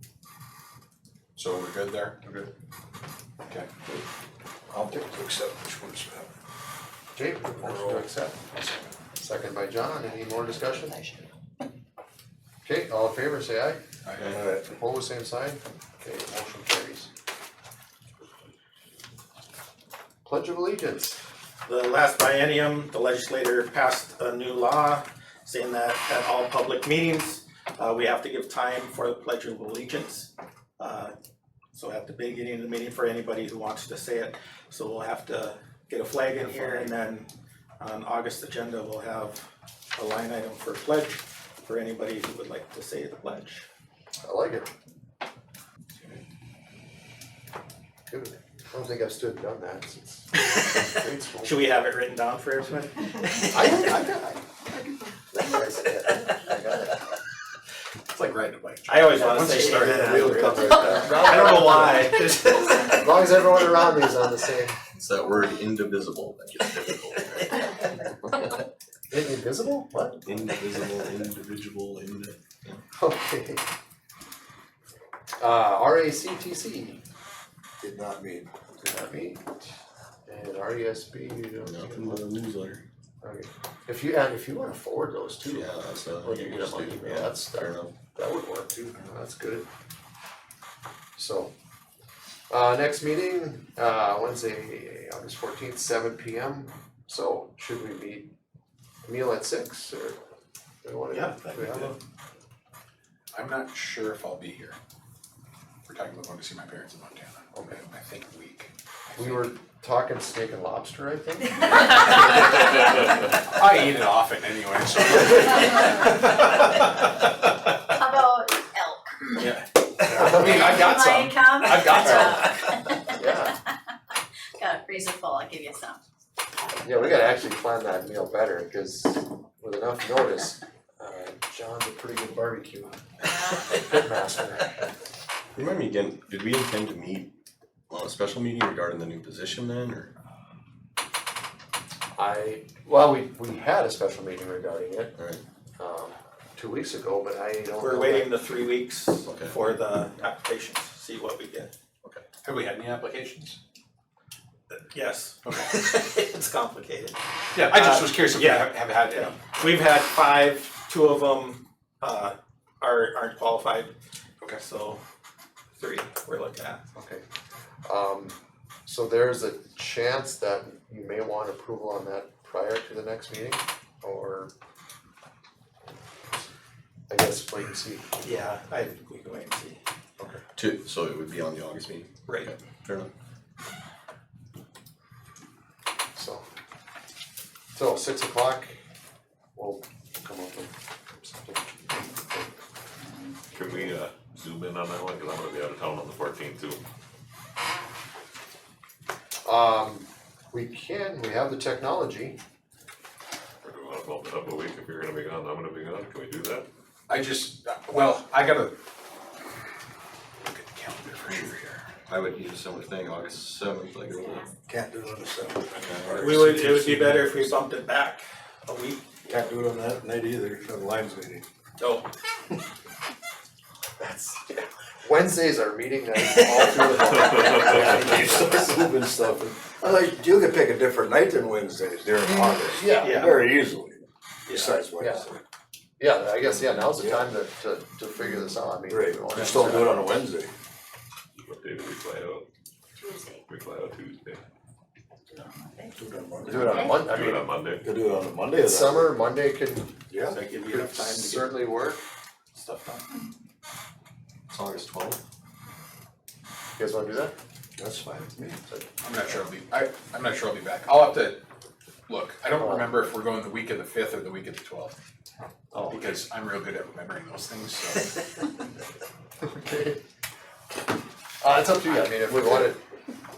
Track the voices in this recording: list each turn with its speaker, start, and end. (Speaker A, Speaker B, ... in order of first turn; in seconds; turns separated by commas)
Speaker A: 1.4-2.2, Speaker B: 4.7-6.3, Speaker C: 7.2-8.4, Speaker B: 7.6-8.1, Speaker C: 9.2-11.1, Speaker C: 12.6-13.8, Speaker A: 14.1-14.4, Speaker B: 14.2-14.7, Speaker C: 14.7-17.1, Speaker C: 20.2-21.2, Speaker D: 21.6-31.1, Speaker D: 31.7-39.4, Speaker D: 40.0-43.6, Speaker C: 44.2-44.7, Speaker C: 48.1-51.6, Speaker D: 51.4-54.0, Speaker C: 53.5-54.2, Speaker A: 53.8-54.2, Speaker C: 55.3-57.0, Speaker A: 58.1-60.5, Speaker D: 58.9-63.1, Speaker B: 59.3-62.0, Speaker C: 60.8-62.2, Speaker C: 62.8-64.8, Speaker E: 64.9-67.7, Speaker C: 69.1-70.5, Speaker E: 70.3-72.8, Speaker C: 72.9-73.6, Speaker C: 75.4-77.0, Speaker B: 77.8-78.5, Speaker C: 78.8-79.6, Speaker C: 80.3-82.3, Speaker E: 81.6-82.8, Speaker C: 83.2-89.7, Speaker E: 85.5-88.0, Speaker C: 91.2-91.5, Speaker C: 92.5-98.3, Speaker C: 99.0-100.2, Speaker C: 100.8-102.0, Speaker D: 101.1-102.0, Speaker A: 103.3-104.8, Speaker A: 105.9-109.5, Speaker C: 107.5-107.8, Speaker C: 109.2-112.8, Speaker A: 112.0-112.8, Speaker A: 113.4-118.0, Speaker F: 115.6-115.9, Speaker F: 118.0-119.5, Speaker A: 119.3-122.7, Speaker C: 120.1-120.8, Speaker F: 120.2-123.4, Speaker C: 123.1-123.6, Speaker F: 124.6-126.0, Speaker C: 126.8-133.0, Speaker C: 133.6-134.9, Speaker E: 135.6-137.3, Speaker E: 137.9-140.1, Speaker C: 142.1-145.2, Speaker E: 145.2-145.4, Speaker C: 145.8-148.4, Speaker D: 147.8-151.7, Speaker E: 149.2-149.6, Speaker A: 152.4-153.6, Speaker D: 154.7-163.9, Speaker A: 155.4-155.7, Speaker A: 157.6-159.6, Speaker D: 164.6-165.0, Speaker D: 165.8-166.8, Speaker C: 166.9-167.2, Speaker C: 167.9-174.5, Speaker C: 177.1-178.3, Speaker D: 178.2-179.8, Speaker E: 180.6-183.1, Speaker D: 182.3-182.5, Speaker C: 186.2-186.4, Speaker C: 187.7-188.8, Speaker C: 189.6-192.5, Speaker G: 193.5-196.8, Speaker C: 193.7-193.9, Speaker C: 199.4-202.4, Speaker G: 203.6-206.7, Speaker A: 207.1-208.8, Speaker A: 210.4-211.9, Speaker E: 212.1-214.5, Speaker B: 214.7-217.2, Speaker E: 215.8-216.4, Speaker D: 216.1-219.0, Speaker A: 216.9-217.2, Speaker B: 219.2-221.4, Speaker D: 221.8-222.1, Speaker C: 224.0-228.6, Speaker D: 226.3-226.8, Speaker B: 226.8-235.4, Speaker C: 232.2-233.4, Speaker D: 233.0-233.4, Speaker D: 234.5-234.8, Speaker C: 235.0-235.2, Speaker C: 236.0-240.1, Speaker B: 236.6-237.3, Speaker B: 238.9-240.5, Speaker G: 241.4-242.5, Speaker F: 243.0-243.4, Speaker G: 243.5-244.4, Speaker F: 245.3-245.9, Speaker B: 245.9-247.0, Speaker C: 246.4-247.5, Speaker F: 246.5-247.1, Speaker G: 246.9-247.8, Speaker B: 247.8-249.2, Speaker C: 248.6-250.0, Speaker B: 250.1-250.4, Speaker D: 250.3-251.7, Speaker C: 250.6-252.0, Speaker D: 252.5-253.1, Speaker E: 254.5-255.2, Speaker C: 256.8-257.3, Speaker B: 257.8-258.6, Speaker A: 259.0-261.4, Speaker A: 262.1-265.0, Speaker C: 262.6-262.9, Speaker C: 265.7-266.1, Speaker A: 265.9-268.1, Speaker C: 269.4-270.0, Speaker C: 271.4-272.8, Speaker B: 272.3-272.7